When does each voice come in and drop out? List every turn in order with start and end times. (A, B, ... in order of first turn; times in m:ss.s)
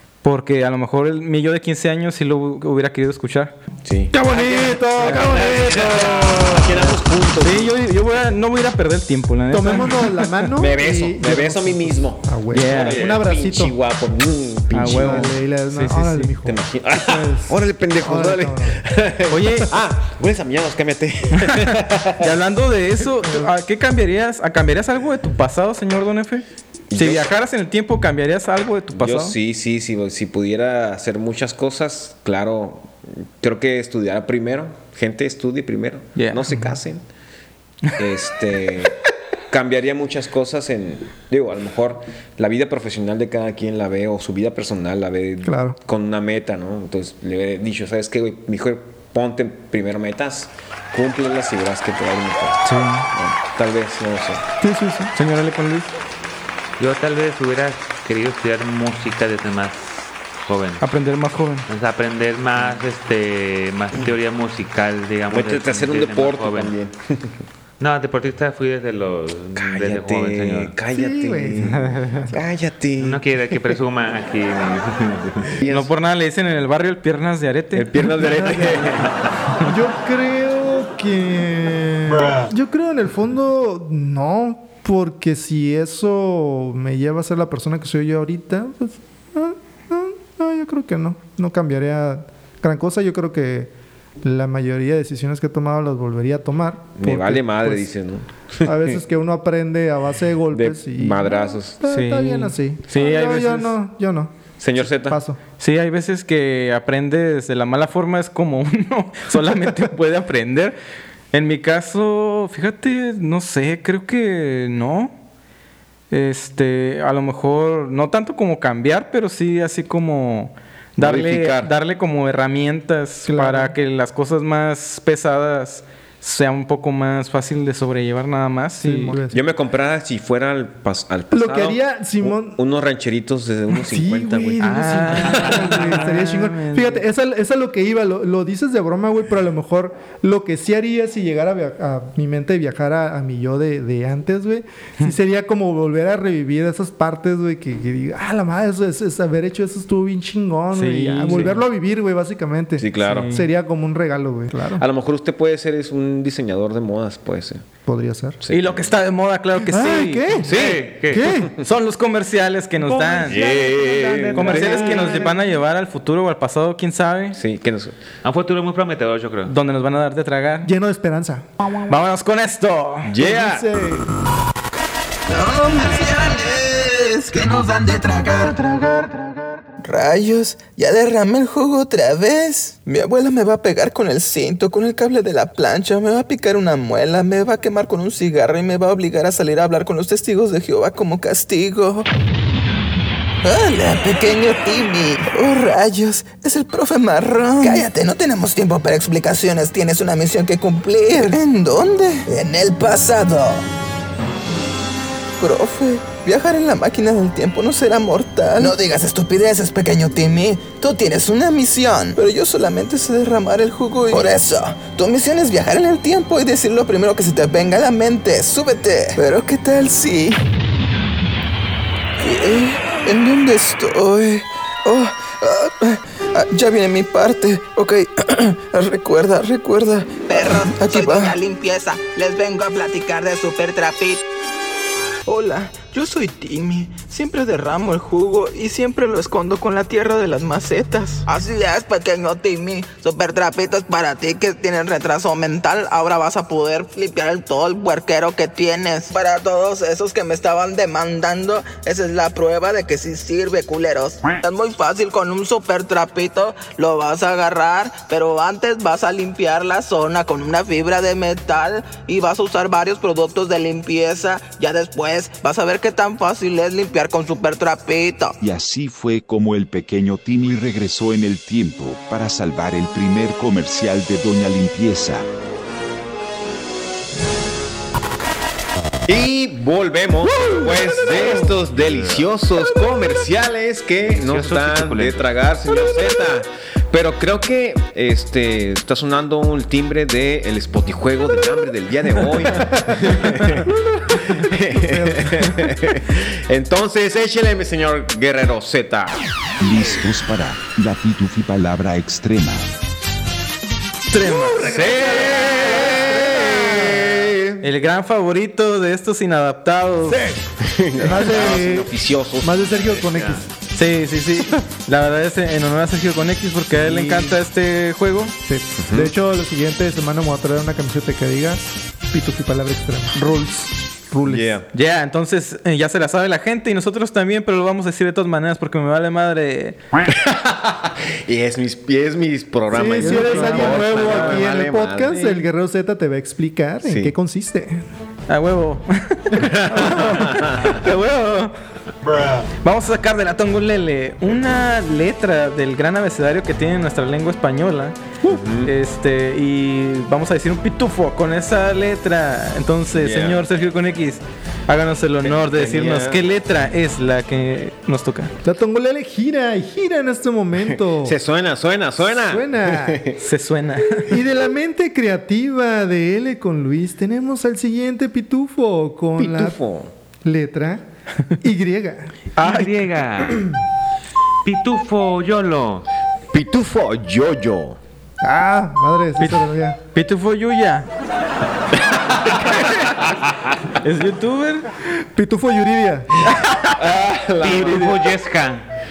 0:00.2-0:03.5 A
0:03.8-0:07.8 B
0:04.1-0:10.5 A
0:04.2-0:06.9 C
0:05.2-0:06.4 D
0:09.5-0:13.8 C
0:10.6-0:15.3 B
0:12.5-0:13.0 A
0:14.7-0:16.3 A
0:14.8-0:18.8 C
0:16.4-0:22.4 B
0:19.3-0:19.7 A
0:21.3-0:29.4 A
0:23.2-0:23.5 C
0:26.9-0:27.3 B
0:28.9-0:37.0 B
0:36.2-0:36.7 A
0:37.9-0:39.0 B
0:39.5-0:54.4 B
0:45.4-0:45.8 C
0:52.6-0:53.1 A
0:54.6-0:55.1 C
0:55.1-0:55.9 A
0:56.8-1:00.8 D
1:00.8-1:01.7 A
1:01.7-1:06.7 D
1:05.3-1:07.4 B
1:07.8-1:10.8 D
1:09.6-1:13.2 B
1:10.9-1:12.4 C
1:11.6-1:12.3 A
1:13.0-1:15.5 D
1:15.5-1:15.9 B
1:15.7-1:17.9 A
1:17.7-1:19.2 B
1:18.0-1:33.7 C
1:34.2-1:37.9 C
1:37.0-1:38.8 B
1:38.6-1:45.4 C
1:40.5-1:41.8 B
1:41.9-1:43.8 A
1:44.6-1:45.2 B
1:45.6-1:50.8 A
1:51.3-1:55.1 A
1:56.1-2:09.2 A
2:01.0-2:01.7 B
2:03.2-2:03.7 C
2:08.8-2:09.4 C
2:09.1-2:15.6 B
2:11.3-2:12.6 C
2:13.8-2:34.8 C
2:14.6-2:17.0 A
2:30.7-2:31.6 A
2:32.8-2:33.3 B
2:33.0-2:33.5 A
2:34.8-2:37.6 B
2:37.8-2:38.4 C
2:38.4-2:38.9 B
2:38.5-2:40.3 A
2:39.7-2:41.5 C
2:40.4-2:40.8 B
2:40.4-2:41.3 D
2:41.6-2:43.4 A
2:42.8-2:45.2 D
2:43.3-2:45.2 B
2:44.3-2:47.4 A
2:47.4-2:48.0 B
2:48.2-2:49.5 D
2:49.5-2:50.7 A
2:50.6-2:51.5 C
2:51.8-2:53.1 A
2:53.0-2:53.7 B
2:53.2-2:54.1 C
2:55.3-2:59.3 E
2:55.4-2:56.6 F
2:57.8-2:58.5 F
2:59.8-3:12.1 E
3:13.4-3:23.5 E
3:17.6-3:17.9 F
3:18.9-3:19.8 F
3:22.7-3:23.4 F
3:25.4-3:40.4 E
3:28.6-3:29.7 F
3:42.2-3:51.4 E
3:50.3-3:54.2 F
3:55.3-4:01.2 E
3:57.6-3:57.9 F
4:01.3-4:28.4 F
4:28.4-4:35.3 G
4:39.1-4:59.2 B
4:41.8-4:42.3 D
4:44.1-4:45.3 D
4:53.6-4:55.9 C
4:59.6-5:02.7 G
5:04.1-5:04.7 A
5:04.3-5:07.6 B
5:06.0-5:07.0 C
5:07.6-5:10.3 A
5:10.6-5:13.1 B
5:11.0-5:13.5 C
5:13.1-5:13.4 D
5:13.7-5:18.4 A
5:16.8-5:17.4 B
5:18.5-5:24.6 C
5:18.8-5:19.1 B
5:24.3-5:24.7 B
5:24.7-5:29.8 A
5:30.1-5:35.2 B
5:32.7-5:37.8 C
5:33.0-5:34.4 A
5:35.1-5:35.4 A
5:36.8-5:37.1 B
5:38.3-5:41.5 A
5:39.4-5:40.8 B
5:39.6-5:40.5 C
5:42.6-5:58.3 A
5:48.2-5:48.7 B
5:53.0-5:53.4 B
5:55.2-5:56.2 B
5:58.4-6:01.2 C
6:00.7-6:03.2 B
6:02.0-6:03.0 C
6:03.2-6:04.1 A
6:04.1-6:09.6 C
6:09.2-6:09.9 B
6:10.2-6:10.8 C
6:11.4-6:12.1 C
6:12.4-6:12.7 A
6:12.4-6:13.6 D
6:14.4-6:15.9 D
6:16.3-6:17.8 B
6:18.2-6:19.8 C
6:19.2-6:20.9 A
6:23.8-6:24.7 A
6:24.9-6:26.1 C
6:26.3-6:26.8 A
6:26.8-6:28.1 B
6:27.4-6:28.6 D